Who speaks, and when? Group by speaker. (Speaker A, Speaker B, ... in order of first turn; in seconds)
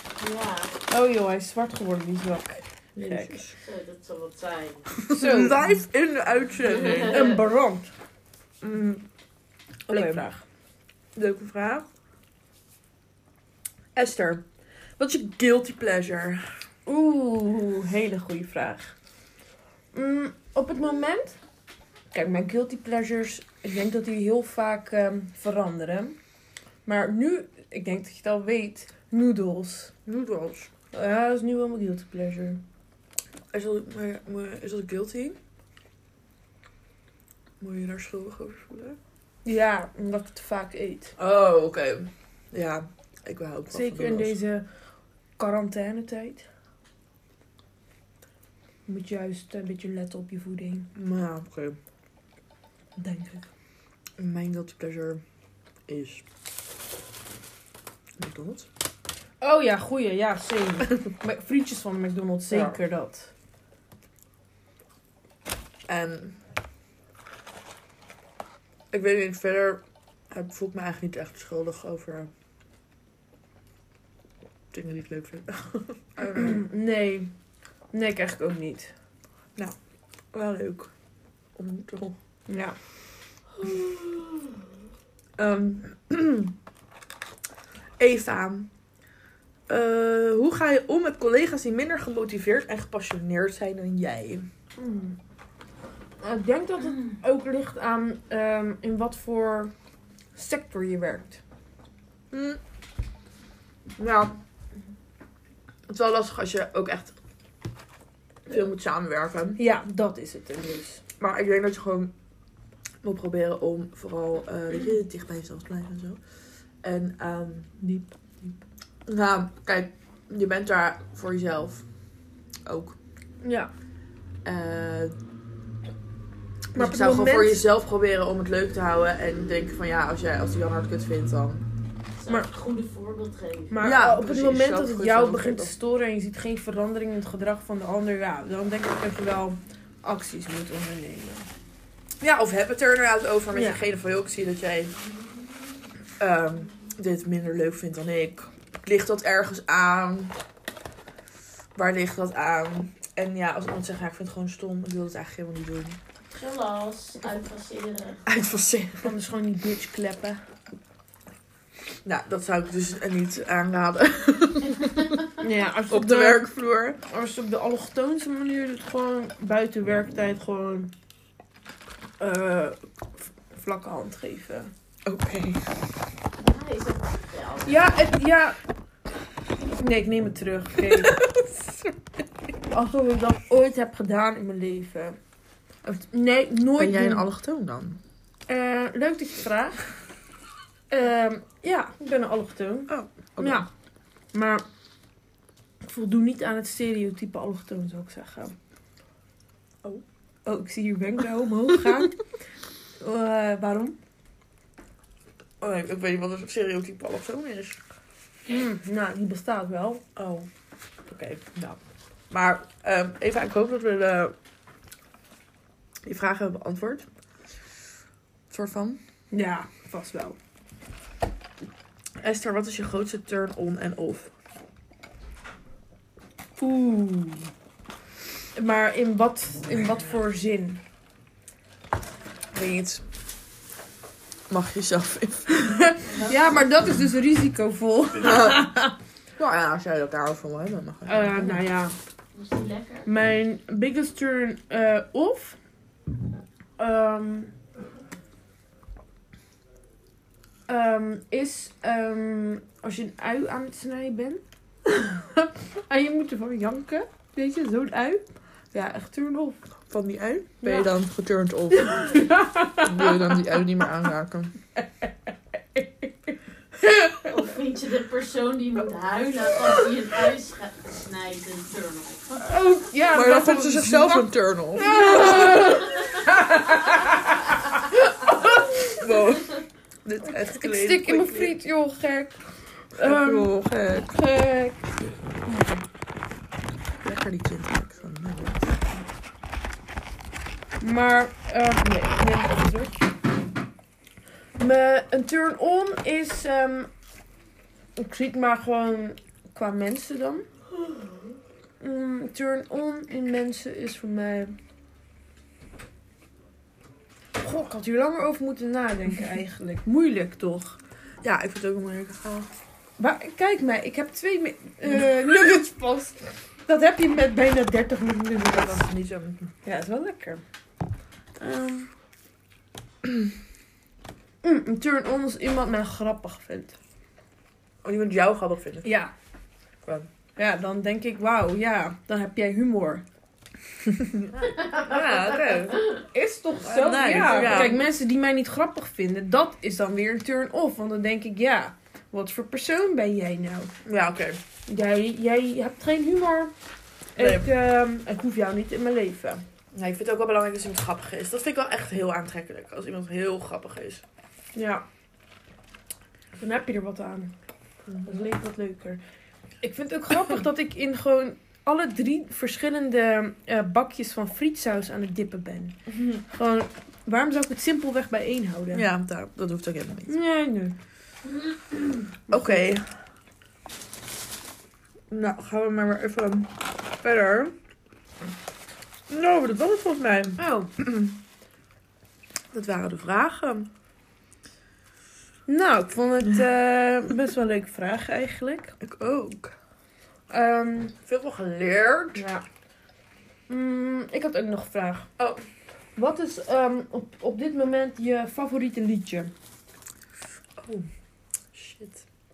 Speaker A: 0.2-0.7, 3.6-4.9, 6.7-7.3, 132.2-133.8, 156.3-158.2, 176.4-177.9, 236.1-236.6, 242.3-243.1, 267.3-272.4, 275.0-276.2, 334.6-335.9
Speaker B: 0.9-3.4, 5.1-5.7, 7.1-7.9, 9.9-10.4, 16.9-18.9, 19.9-21.4, 22.1-26.2, 26.9-29.9, 30.9-32.6, 39.5-41.2, 43.7-44.7, 45.4-46.5, 48.9-50.9, 53.0-53.5, 59.4-63.3, 76.3-77.3, 77.9-78.9, 82.5-82.8, 94.8-95.2, 96.2-99.7, 100.3-101.4, 109.6-111.0, 117.8-118.1, 123.4-123.7, 126.7-127.6, 133.7-141.5, 143.5-143.8, 159.0-160.4, 165.4-166.5, 167.1-170.9, 172.2-172.8, 173.5-174.7, 177.7-178.6, 179.8-181.2, 182.7-185.2, 185.8-187.3, 188.5-189.9, 190.9-193.7, 194.3-194.6, 195.8-198.6, 200.5-202.2, 203.0-204.0, 208.5-210.0, 219.3-220.4, 226.6-227.5, 228.5-230.8, 232.6-233.0, 236.2-238.9, 241.1-241.9, 243.1-245.6, 246.8-247.5, 250.7-259.6, 260.6-260.9, 261.8-263.6, 264.8-267.2, 272.4-279.0, 280.2-284.9, 285.5-285.8, 290.8-293.1, 294.6-296.9, 298.0-300.5, 301.8-304.6, 307.4-310.8, 313.0-318.9, 319.6-320.4, 321.4-321.9, 324.4-326.8, 328.8-329.1, 330.4-333.0, 336.1-343.7, 344.7-346.5, 347.1-349.4, 354.6-354.9, 356.4-357.3, 358.0-359.0, 359.6-368.9, 370.1-370.8, 372.3-372.6, 380.4-380.7, 385.5-388.8, 390.3-391.0, 392.1-392.4, 393.5-395.1, 396.0-399.3
Speaker C: 3.0-3.5, 5.0-7.2, 8.6-9.1, 9.9-10.2, 11.2-11.9, 13.9-14.4, 15.0-16.5, 30.1-30.7, 33.5-35.4, 37.6-39.0, 41.2-44.4, 51.0-51.8, 54.2-55.2, 55.9-56.2, 58.2-58.7, 62.5-62.8, 65.9-66.4, 68.9-72.3, 74.7-76.6, 80.3-80.9, 81.6-82.2, 83.6-84.3, 85.4-86.5, 88.0-88.7, 89.7-94.5, 102.3-102.6, 104.0-104.4, 105.9-107.2, 108.5-109.6, 111.2-112.1, 113.0-116.2, 116.8-117.7, 119.1-121.8, 122.7-123.0, 124.5-125.1, 126.8-131.7, 133.8-135.7, 142.2-145.0, 146.2-150.4, 151.8-156.0, 158.3-159.1, 162.0-165.3, 165.9-167.0, 175.1-175.7, 180.8-182.3, 186.8-188.0, 192.9-193.6, 205.6-207.8, 210.2-210.5, 211.1-211.8, 212.3-214.3, 216.0-217.1, 218.5-219.0, 222.2-224.3, 234.5-235.9, 238.2-238.7, 239.4-241.6, 259.9-264.6, 273.1-276.2, 278.9-281.6, 282.9-284.1, 287.0-289.1, 311.2-312.5, 318.4-319.5, 327.8-328.9, 333.9-335.9, 336.6-337.8, 343.9-344.4, 347.2-347.5, 349.7-354.0, 365.9-366.2, 368.7-370.1, 372.3-372.9, 375.1-377.6, 379.1-381.2, 382.5-383.7, 388.8-389.6, 391.1-392.2, 395.2-395.4, 400.6-400.9, 401.5-402.0